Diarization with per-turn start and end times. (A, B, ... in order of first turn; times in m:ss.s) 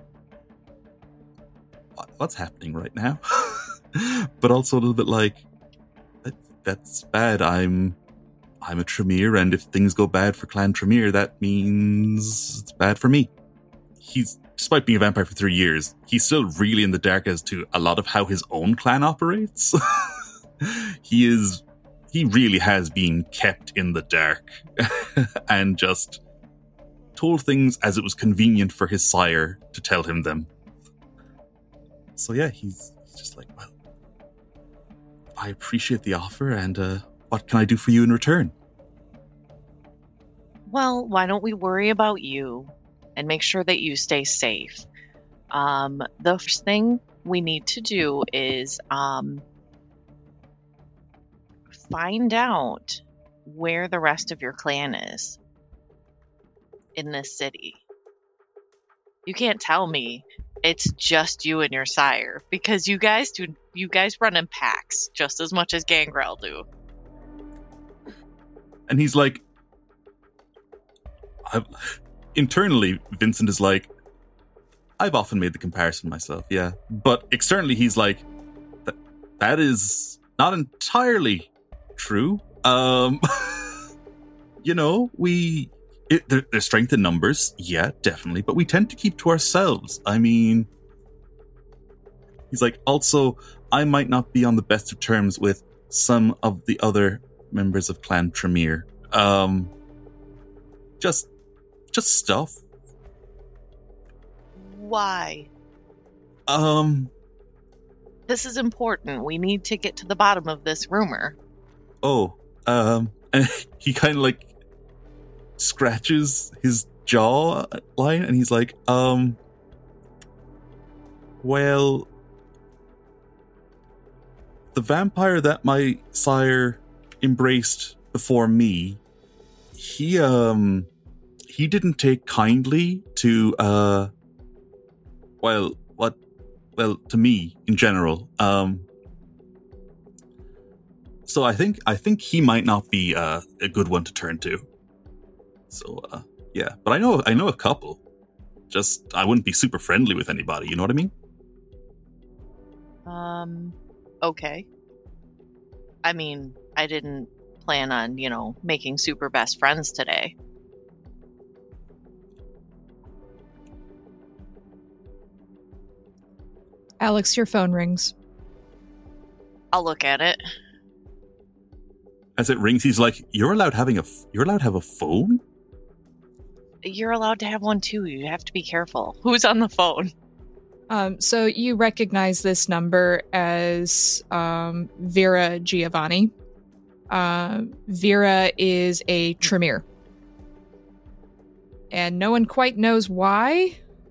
0:02.0-0:05.4 A
0:06.2-0:08.0 A
0:08.6-0:13.3 A
0:14.0-0:26.2 A
0:27.2-0:30.5 A
0:32.2-0:33.7 A
0:35.4-0:38.5 A
0:40.7-0:44.9 B
0:45.5-0:49.4 B
0:51.8-0:55.4 B
0:57.0-0:57.8 B
0:59.3-1:06.7 B
1:08.9-1:09.4 A
1:12.3-1:13.9 A
1:15.0-1:18.2 A
1:18.9-1:23.8 A
1:24.6-1:30.7 A
1:32.5-1:39.7 A
1:41.0-1:41.3 A
1:41.9-1:42.6 A
1:44.6-1:45.5 B
1:46.5-1:47.1 A
1:48.3-1:51.4 B
1:52.0-1:54.5 A
1:55.6-1:59.4 A
2:01.4-2:02.1 A
2:04.7-2:09.0 A
2:09.8-2:10.9 A
2:11.5-2:14.1 A
2:15.4-2:16.2 A
2:16.8-2:18.9 A
2:21.3-2:24.7 A
2:25.7-2:28.0 A
2:28.7-2:31.1 A
2:33.1-2:34.7 B
2:36.0-2:40.4 B
2:47.0-2:48.1 C
2:49.7-2:50.4 B
2:52.4-2:55.4 A
2:56.8-3:00.1 B
3:00.9-3:06.3 C
3:07.1-3:09.8 C
3:11.9-3:13.8 C